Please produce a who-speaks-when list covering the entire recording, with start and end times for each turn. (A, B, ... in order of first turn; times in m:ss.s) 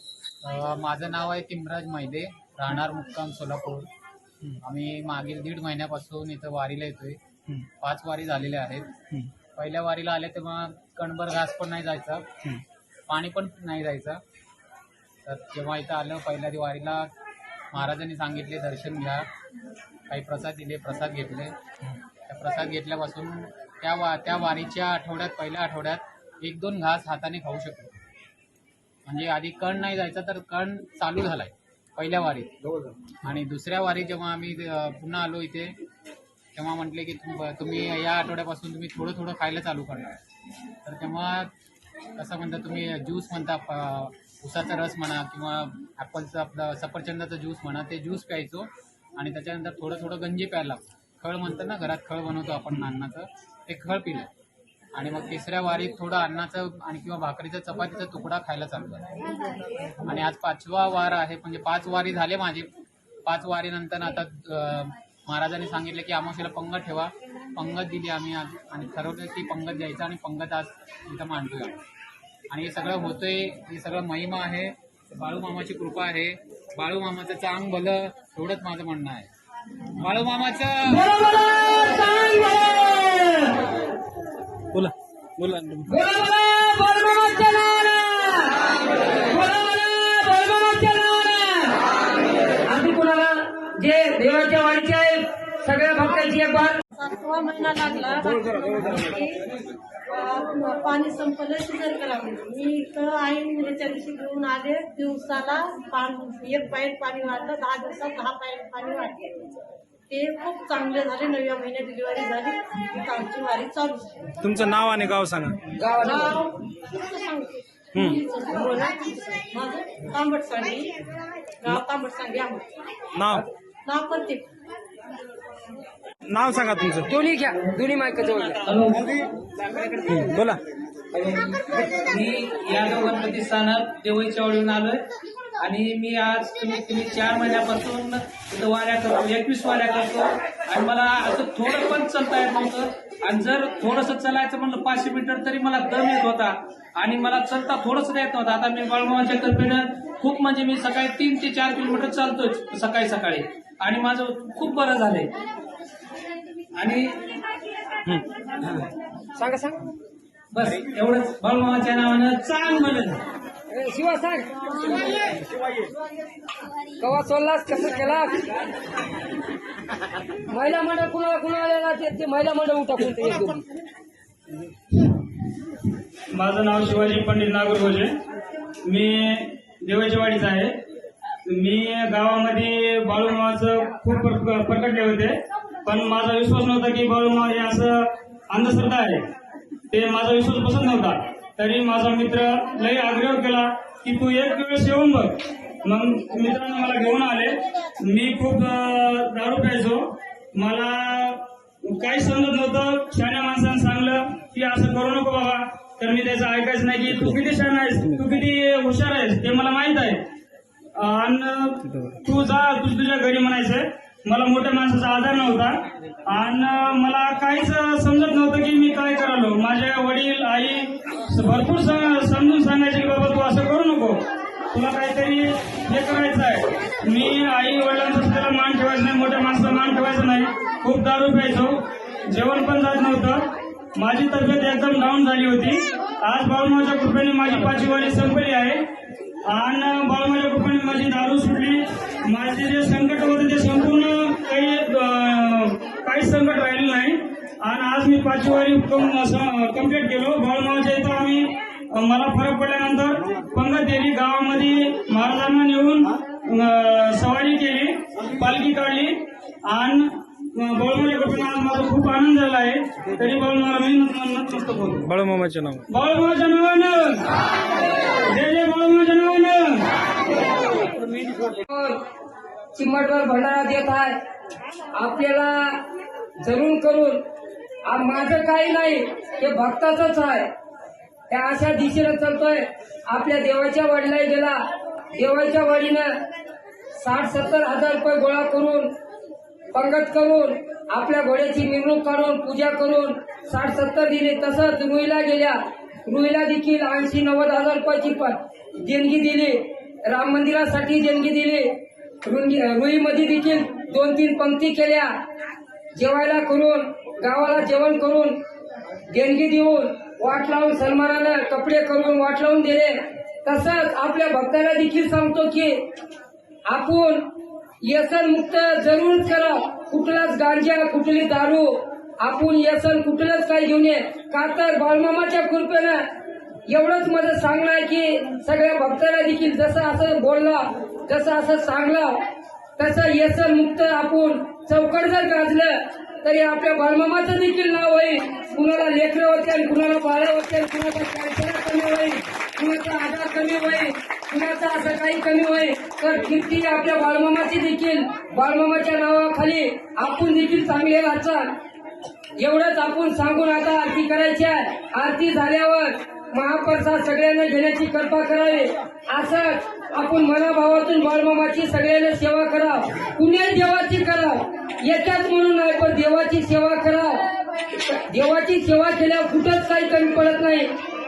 0:00.4-0:03.9 A
0:04.4-0:08.9 A
0:09.6-0:12.3 A
0:13.1-0:14.2 A
0:15.2-0:17.1 A
0:17.7-0:19.3 A
0:20.1-0:21.6 A
0:22.3-0:27.9 A
0:29.1-0:32.6 A
0:33.2-0:35.8 A
0:36.5-0:40.2 A
0:40.8-0:41.5 A
0:42.2-0:54.3 A
0:55.0-0:59.2 A
1:00.0-1:02.7 A
1:03.2-1:11.8 A
1:12.5-1:19.3 A
1:20.0-1:21.1 A
1:20.9-1:23.5 B
1:24.7-1:25.9 C
1:25.8-1:31.8 B
1:32.7-1:36.8 B
1:36.8-1:39.5 D
1:40.1-1:49.4 D
1:50.1-1:54.2 D
1:54.4-1:55.6 C
1:55.7-1:56.3 B
1:56.0-2:01.0 D
2:01.6-2:02.7 D
2:03.2-2:03.4 C
2:03.8-2:04.5 D
2:06.2-2:07.1 C
2:07.1-2:08.6 B
2:08.7-2:09.2 E
2:09.8-2:10.2 E
2:10.1-2:10.6 C
2:11.1-2:15.0 E
2:15.6-2:35.3 E
2:36.8-2:37.2 E
2:38.6-2:38.9 E
2:39.4-2:39.9 B
2:40.5-2:43.2 E
2:43.7-2:44.9 B
2:47.0-2:48.5 B
2:50.5-2:53.6 B
2:56.3-2:58.1 F
2:58.8-3:00.7 F
3:01.5-3:09.2 F
3:09.9-3:30.2 F
3:31.0-3:35.7 F
3:31.9-3:32.2 C
3:36.3-3:44.2 F
3:44.7-3:58.8 F
3:59.5-4:19.2 F
4:19.7-4:25.0 F
4:25.1-4:25.8 E
4:25.9-4:27.4 F
4:28.3-4:29.9 F
4:31.6-4:32.0 B
4:32.8-4:34.2 B
4:34.9-4:35.8 B
4:36.4-4:37.2 B
4:37.8-4:40.5 B
4:41.3-4:46.2 B
4:47.0-4:48.9 B
4:49.7-5:05.1 B
5:05.9-5:08.4 B
5:09.1-5:15.9 B
5:16.7-5:26.0 B
5:26.7-5:32.2 B
5:32.8-5:51.5 B
5:52.4-6:10.7 B